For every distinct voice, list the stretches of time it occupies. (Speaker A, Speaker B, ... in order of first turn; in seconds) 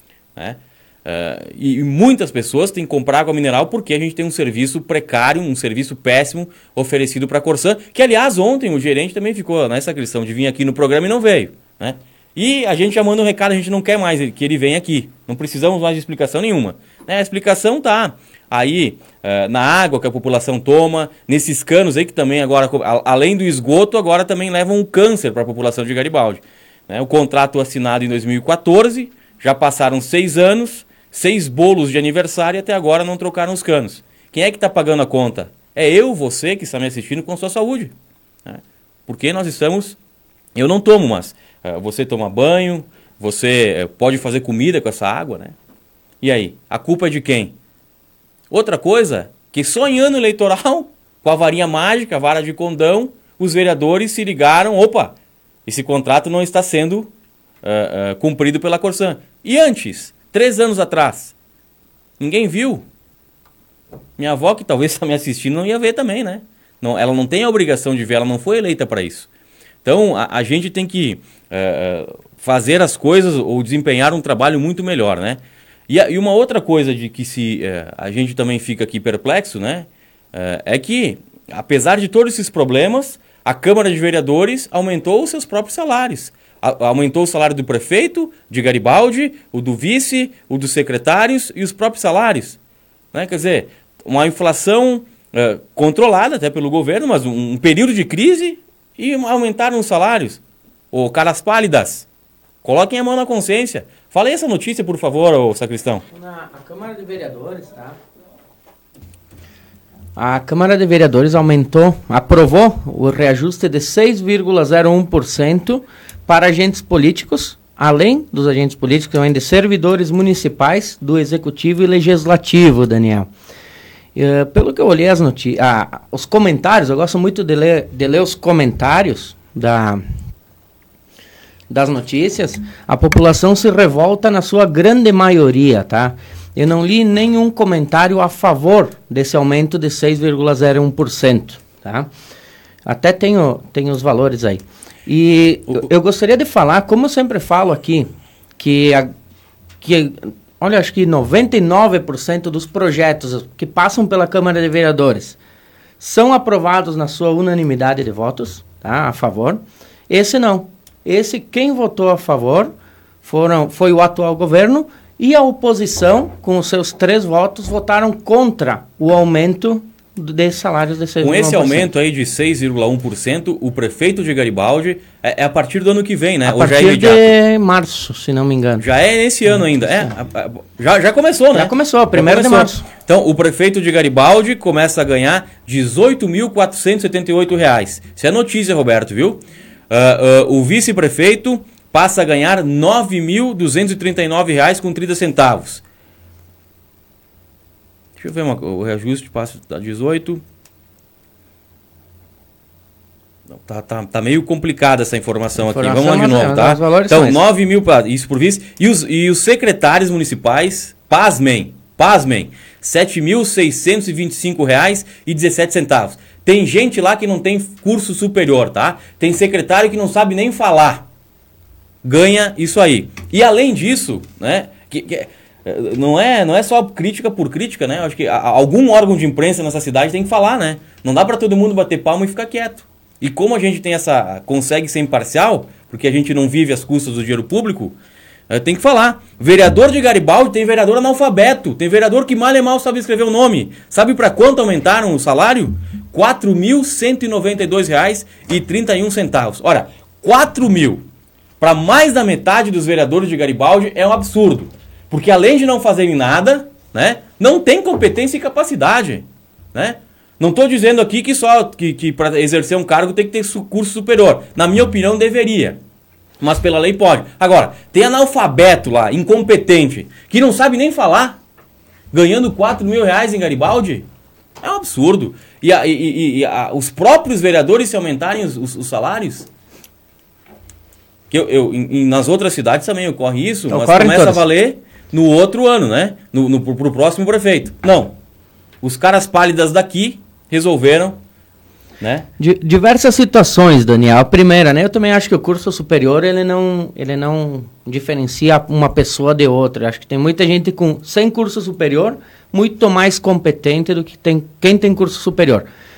Speaker A: 0.4-37.9, 38.5-40.0, 40.5-45.5, 46.2-47.5, 48.5-55.1, 55.7-57.1, 57.6-61.3, 62.2-62.9, 64.2-69.3, 69.8-92.6, 93.1-100.4, 100.9-102.1, 102.6-106.0, 171.2-177.3, 178.8-195.8, 198.2-200.4, 203.5-221.1, 222.0-237.9, 238.5-251.0, 251.6-265.8, 266.4-271.4, 272.1-274.1, 274.6-279.5, 281.3-288.1, 288.8-291.2, 292.0-292.3
Speaker B: 106.1-108.0, 110.2-123.3, 124.2-130.0, 131.7-142.1, 142.9-149.1, 149.8-155.4, 156.0-171.9, 176.4-178.9, 181.6-182.9, 205.6-207.4, 283.7-284.4, 292.4-305.7